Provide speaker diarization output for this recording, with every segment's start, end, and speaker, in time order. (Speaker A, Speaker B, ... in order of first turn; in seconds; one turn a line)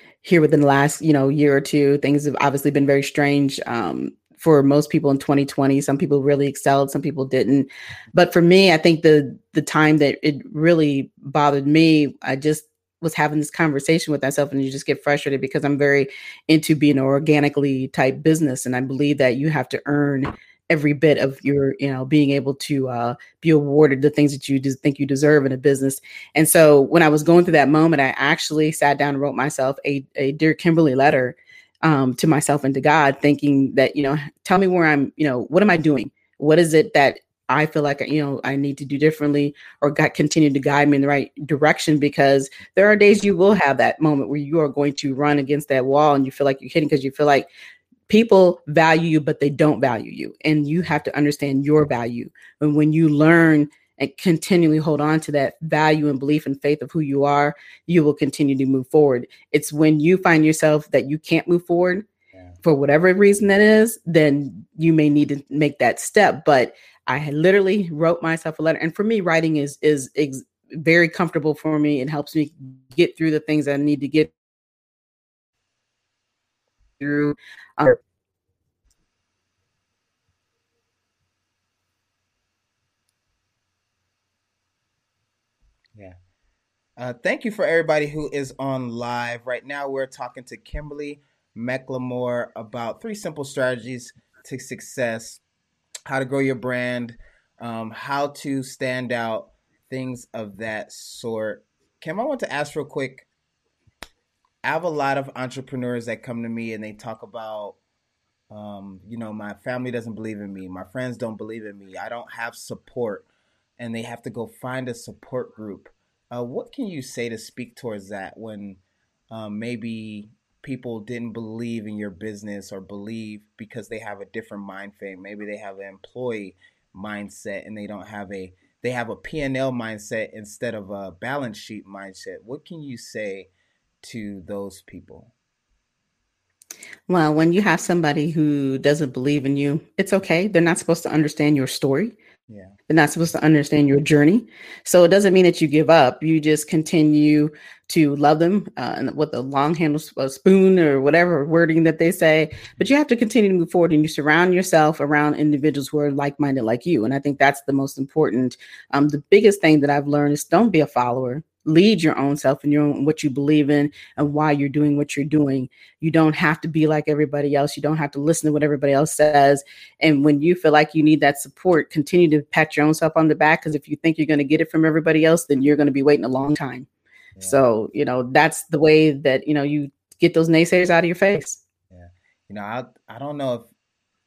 Speaker A: 0.2-47.5
Speaker A: 48.1-62.1
Speaker A: 62.6-74.3
Speaker A: 77.0-78.0
Speaker B: 87.0-95.4
Speaker B: 96.1-103.3
Speaker B: 104.6-107.8
Speaker B: 108.5-133.5
Speaker B: 134.0-135.3
Speaker A: 137.1-142.2
Speaker B: 142.5-142.8
Speaker A: 142.9-176.9
Speaker B: 177.4-177.6
Speaker A: 177.4-181.6
Speaker B: 181.9-183.7